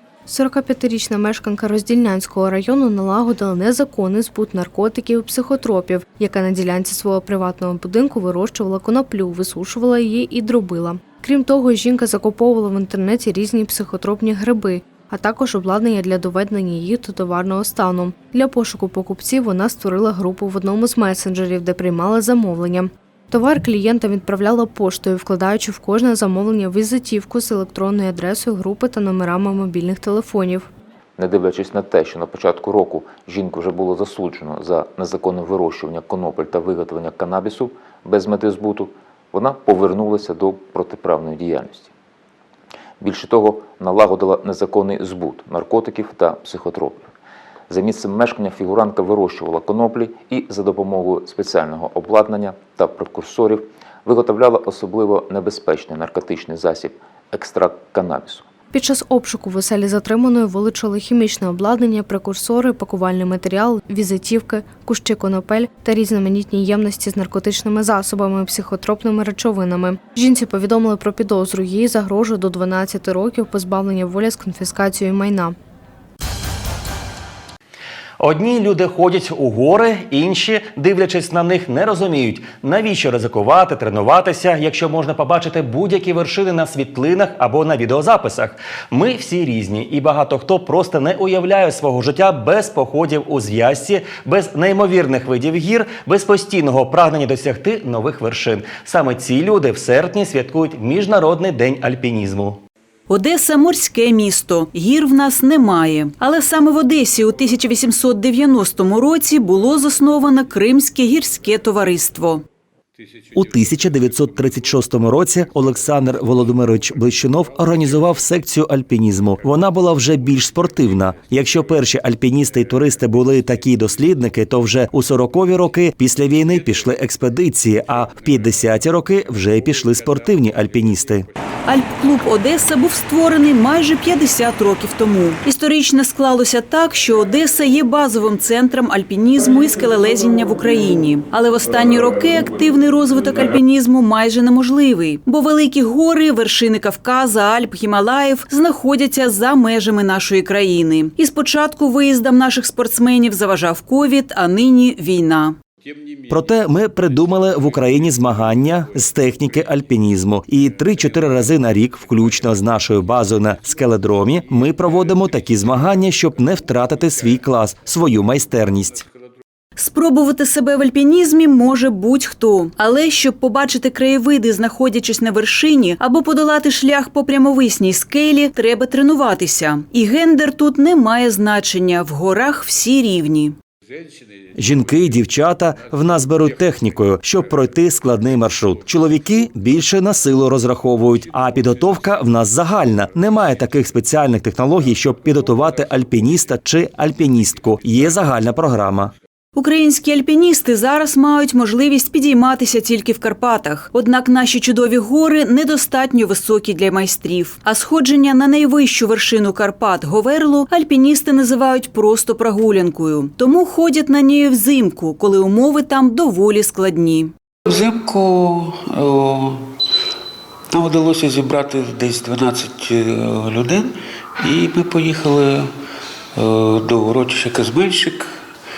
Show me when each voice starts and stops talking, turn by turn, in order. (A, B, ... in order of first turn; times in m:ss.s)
0:00.3-0:30.7 A
0:31.2-0:41.9 B
0:43.0-0:47.1 B
0:47.7-0:58.5 B
0:58.7-1:15.6 A
1:18.2-1:42.6 C
1:43.1-1:52.4 D
1:53.3-2:11.3 C
2:11.6-2:35.6 D
2:36.3-2:49.1 C
2:49.8-3:03.6 D
3:04.6-3:19.1 C
3:19.6-3:37.3 D
3:37.7-3:39.8 E
3:40.7-3:45.7 E
3:46.4-3:48.4 E